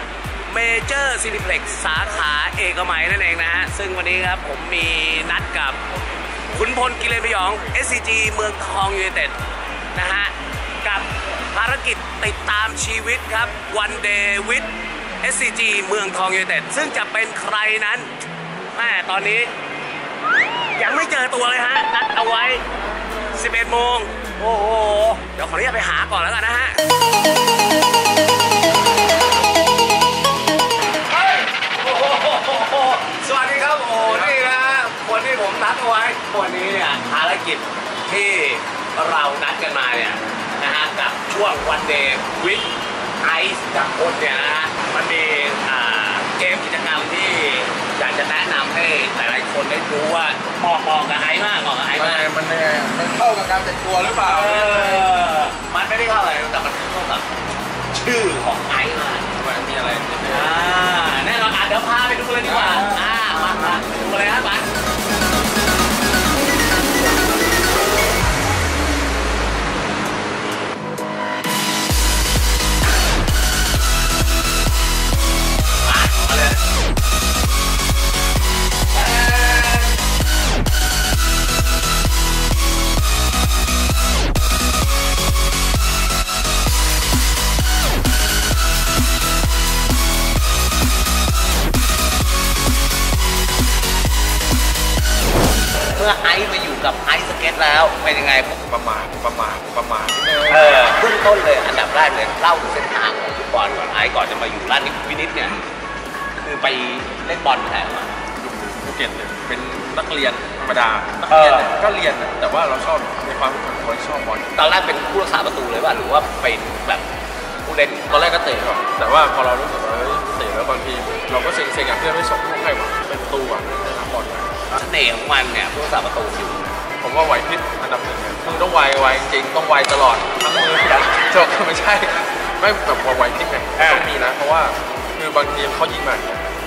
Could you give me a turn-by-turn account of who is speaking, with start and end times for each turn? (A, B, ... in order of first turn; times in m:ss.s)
0:00.5-0:05.8 A
0:06.5-0:09.4 A
0:09.9-0:14.7 A
0:15.2-0:18.1 A
0:18.7-0:19.5 A
0:20.8-0:22.7 A
0:23.3-0:26.8 A
0:31.1-0:52.3 A
0:51.9-0:55.1 B
0:54.2-0:57.3 A
0:57.9-0:59.4 A
0:59.4-1:00.6 B
1:00.2-1:04.7 A
1:02.5-1:03.0 B
1:15.8-1:16.6 A
1:18.9-1:20.0 A
1:35.9-1:38.6 A
1:38.6-1:40.9 B
1:40.5-1:45.6 A
1:46.3-1:48.1 A
1:48.4-1:54.5 B
1:51.3-1:51.7 A
1:54.6-1:57.1 A
1:57.6-1:58.1 A
1:58.1-2:04.7 B
2:04.7-2:06.7 A
2:07.0-2:16.4 B
2:13.8-2:14.1 A